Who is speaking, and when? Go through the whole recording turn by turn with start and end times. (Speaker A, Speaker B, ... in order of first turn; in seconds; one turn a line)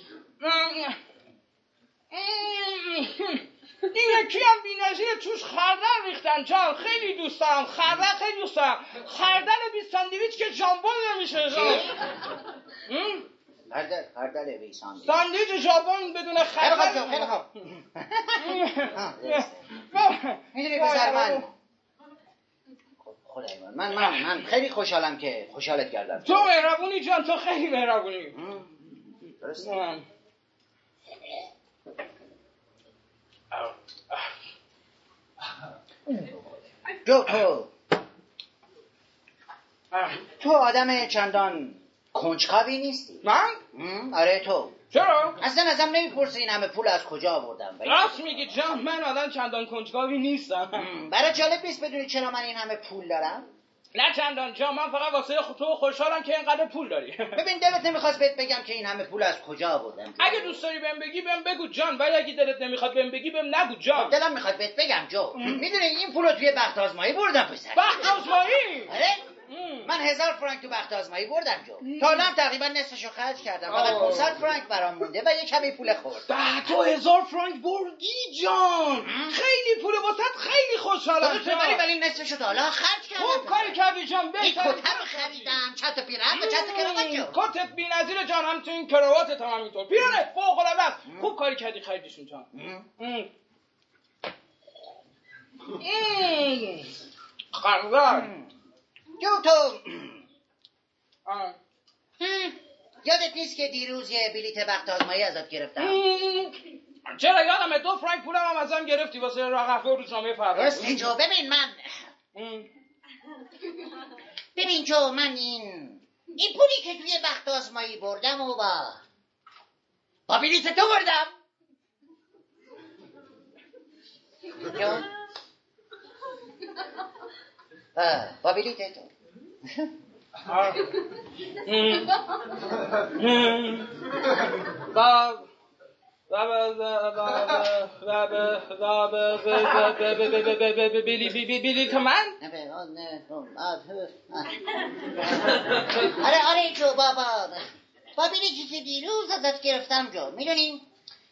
Speaker A: 0.4-1.0
Speaker A: 2.1-11.9
Speaker B: 11.5-11.9
Speaker A: 12.9-13.2
Speaker B: 13.7-15.2
Speaker A: 15.0-17.4
Speaker B: 16.6-19.6
Speaker A: 18.4-21.5
Speaker B: 20.5-21.5
Speaker B: 23.0-26.5
Speaker A: 23.9-24.3
Speaker A: 26.2-28.4
Speaker B: 28.3-29.8
Speaker A: 29.6-30.0
Speaker A: 33.5-34.2
Speaker B: 37.0-37.7
Speaker A: 39.9-40.2
Speaker B: 40.4-44.7
Speaker A: 43.2-43.6
Speaker A: 44.9-45.4
Speaker B: 45.4-48.8
Speaker A: 47.9-50.9
Speaker B: 50.7-53.4
Speaker A: 53.9-57.4
Speaker B: 57.4-60.6
Speaker A: 60.2-64.2
Speaker B: 63.9-68.2
Speaker A: 65.3-65.6
Speaker A: 67.7-68.9
Speaker B: 68.9-69.2
Speaker A: 69.5-69.9
Speaker B: 69.8-76.3
Speaker A: 71.8-72.3
Speaker A: 73.7-74.4
Speaker A: 76.3-81.8
Speaker B: 79.0-79.4
Speaker B: 81.2-83.8
Speaker A: 83.2-85.5
Speaker B: 84.4-87.3
Speaker A: 86.3-93.3
Speaker B: 91.1-91.3
Speaker B: 92.5-92.9
Speaker A: 95.8-96.9
Speaker A: 97.5-98.3
Speaker B: 98.1-98.5
Speaker B: 99.2-100.2
Speaker A: 101.3-101.6
Speaker B: 102.2-106.0
Speaker A: 105.8-111.0
Speaker B: 110.5-112.1
Speaker A: 112.3-112.7
Speaker B: 114.6-119.0
Speaker B: 120.3-121.3
Speaker B: 124.6-125.1
Speaker B: 127.9-129.1
Speaker B: 129.6-129.9
Speaker A: 130.4-131.0
Speaker A: 131.6-132.2
Speaker A: 133.0-135.5
Speaker A: 136.3-142.4
Speaker B: 142.4-150.8